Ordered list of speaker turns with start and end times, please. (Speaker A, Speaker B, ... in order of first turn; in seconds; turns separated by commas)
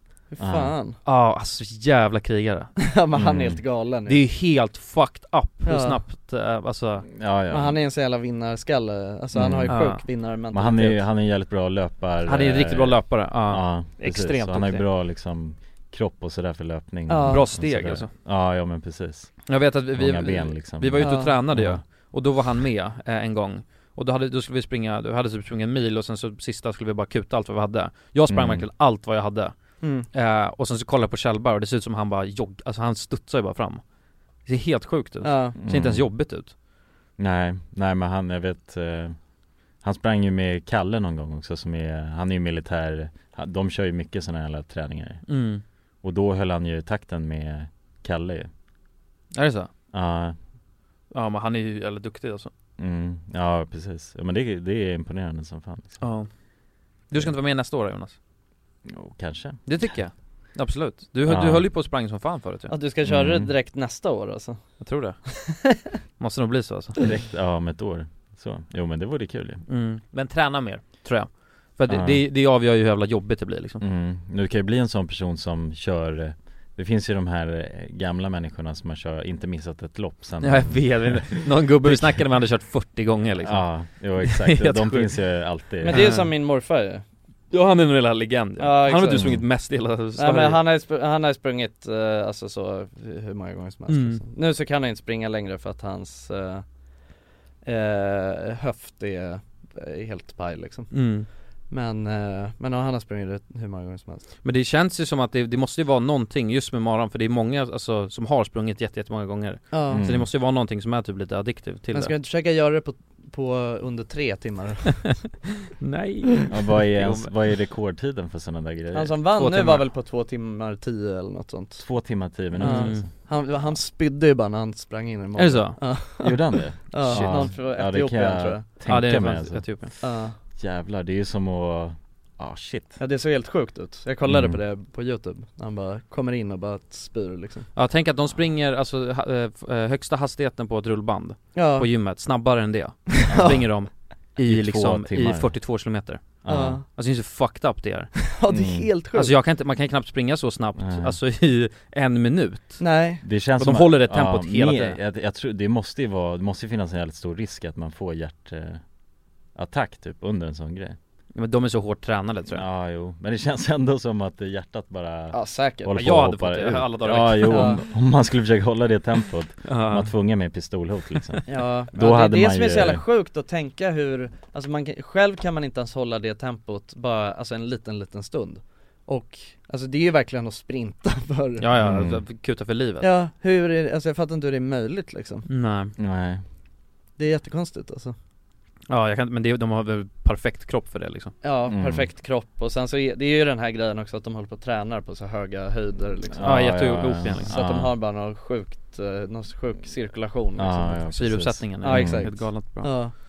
Speaker A: 0.3-1.0, Speaker B: 0.4-0.7, Speaker C: 1.1-2.8, Speaker A: 2.8-4.2, Speaker B: 3.1-3.6, Speaker C: 4.1-7.1, Speaker A: 5.7-6.0, Speaker B: 7.1-7.8, Speaker A: 7.5-11.1, Speaker B: 9.3-21.8, Speaker C: 9.7-10.0, Speaker C: 12.3-14.8, Speaker A: 17.1-17.5, Speaker C: 17.3-18.1, Speaker C: 19.5-33.8, Speaker A: 21.0-21.4, Speaker B: 28.3-28.7, Speaker A: 29.8-30.1, Speaker C: 34.5-36.5, Speaker A: 35.2-35.5, Speaker B: 35.6-36.1, Speaker B: 37.2-39.2, Speaker B: 39.8-45.3, Speaker C: 45.3-45.6, Speaker B: 46.0-48.5, Speaker C: 49.4-49.7, Speaker B: 49.9-50.4, Speaker C: 51.1-52.5, Speaker B: 52.8-56.1, Speaker C: 56.0-56.3, Speaker C: 57.1-58.2, Speaker B: 58.9-59.8, Speaker C: 59.7-62.7, Speaker B: 61.2-61.7, Speaker A: 62.7-64.6, Speaker B: 63.0-63.5, Speaker C: 64.8-67.0, Speaker B: 67.0-69.6, Speaker C: 69.7-73.8, Speaker B: 71.9-72.2, Speaker B: 73.8-82.2, Speaker C: 80.4-86.3, Speaker B: 83.4-86.1, Speaker A: 85.8-87.0, Speaker C: 87.5-90.6, Speaker A: 88.6-89.5, Speaker B: 89.1-89.5, Speaker A: 90.2-96.7, Speaker C: 93.9-94.2, Speaker A: 97.7-104.3, Speaker C: 100.9-101.3, Speaker C: 104.4-112.1, Speaker A: 109.7-110.0, Speaker B: 109.9-110.3, Speaker A: 111.9-115.2, Speaker C: 115.8-117.3, Speaker B: 116.5-119.2, Speaker A: 118.9-121.8, Speaker C: 119.4-119.9, Speaker B: 121.8-123.1, Speaker A: 122.6-128.7, Speaker C: 122.6-123.1, Speaker C: 125.4-126.0, Speaker B: 126.2-129.9, Speaker C: 127.1-127.5, Speaker C: 128.9-129.9, Speaker A: 130.0-130.4, Speaker B: 130.6-133.0, Speaker A: 133.0-137.7, Speaker B: 134.2-134.6, Speaker C: 137.8-148.2, Speaker A: 141.6-141.9, Speaker A: 143.2-143.6, Speaker B: 143.3-143.6, Speaker B: 144.4-145.6, Speaker B: 146.4-146.8, Speaker A: 146.5-146.8, Speaker A: 148.3-149.3, Speaker B: 148.5-148.9, Speaker C: 149.1-152.8, Speaker B: 150.8-151.2, Speaker A: 152.8-153.2, Speaker B: 153.2-158.8, Speaker C: 153.6-155.0, Speaker B: 159.6-161.0, Speaker C: 161.3-162.7, Speaker B: 162.5-173.0, Speaker A: 165.3-165.9, Speaker C: 165.9-167.8, Speaker A: 167.5-167.8, Speaker C: 169.7-170.1, Speaker A: 171.5-181.7, Speaker C: 181.6-183.1, Speaker B: 181.8-182.2, Speaker A: 183.0-185.5, Speaker C: 185.5-185.9, Speaker B: 186.0-186.4, Speaker A: 187.2-188.2, Speaker C: 188.9-191.3, Speaker A: 191.4-196.8, Speaker B: 191.7-192.1, Speaker B: 196.3-197.9, Speaker C: 196.4-197.5, Speaker A: 197.4-201.1, Speaker B: 200.6-202.3, Speaker C: 201.1-202.9, Speaker A: 201.8-203.2